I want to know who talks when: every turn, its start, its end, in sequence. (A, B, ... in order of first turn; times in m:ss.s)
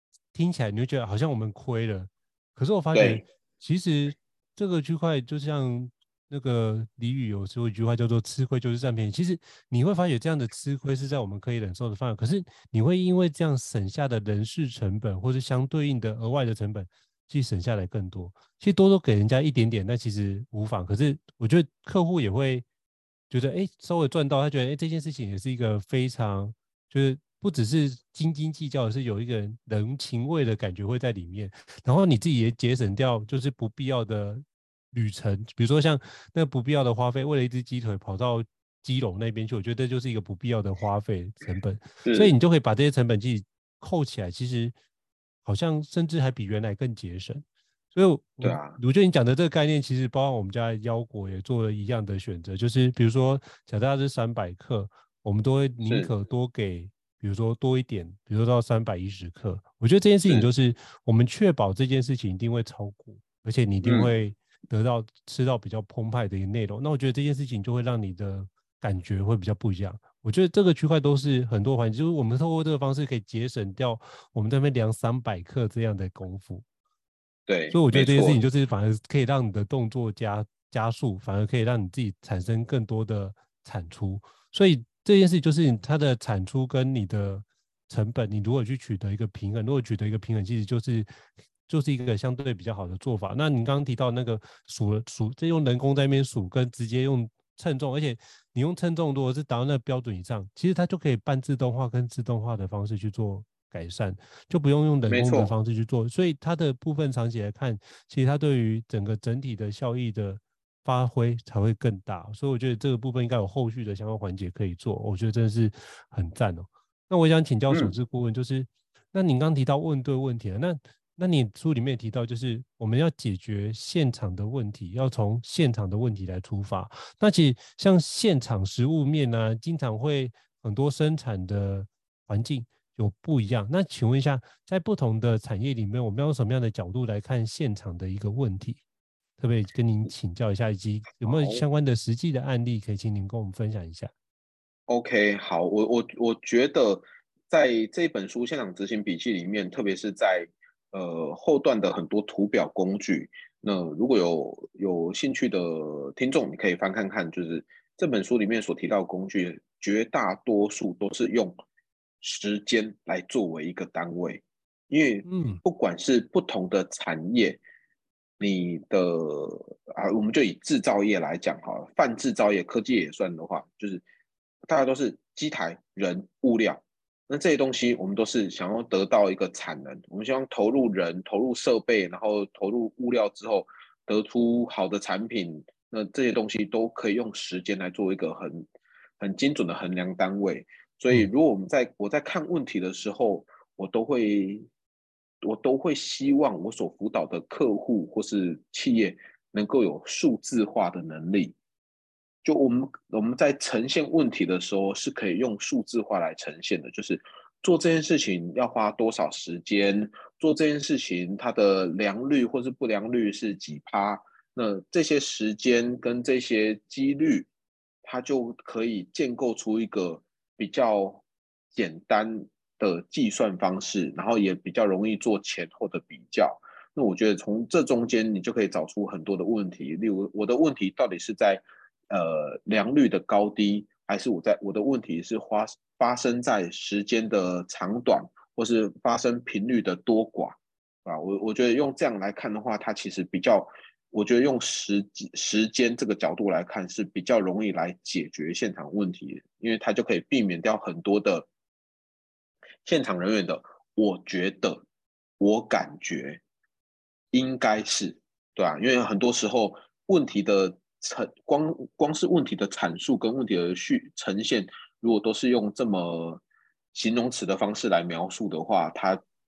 0:00.3-0:22.6 A
0:02.9-0:03.2 B
0:23.3-0:44.7 A
0:42.0-0:42.3 B
0:45.4-1:16.6 A
0:48.4-0:48.8 B
0:55.8-0:56.1 B
1:03.8-1:04.1 B
1:17.5-1:18.4 B
1:17.7-1:31.1 A
1:31.7-2:18.8 A
1:45.1-1:45.5 B
2:19.4-2:24.1 A
2:21.2-2:21.6 B
2:24.9-2:41.6 B
2:42.2-2:47.6 B
2:45.2-2:45.6 A
2:48.4-2:54.0 B
2:54.7-3:08.7 B
3:09.2-3:14.7 B
3:15.4-3:21.5 B
3:22.4-3:37.5 B
3:38.0-3:41.2 B
3:41.7-4:11.5 B
4:12.8-4:14.8 B
4:15.4-4:16.4 B
4:17.3-4:26.4 B
4:26.9-4:29.2 B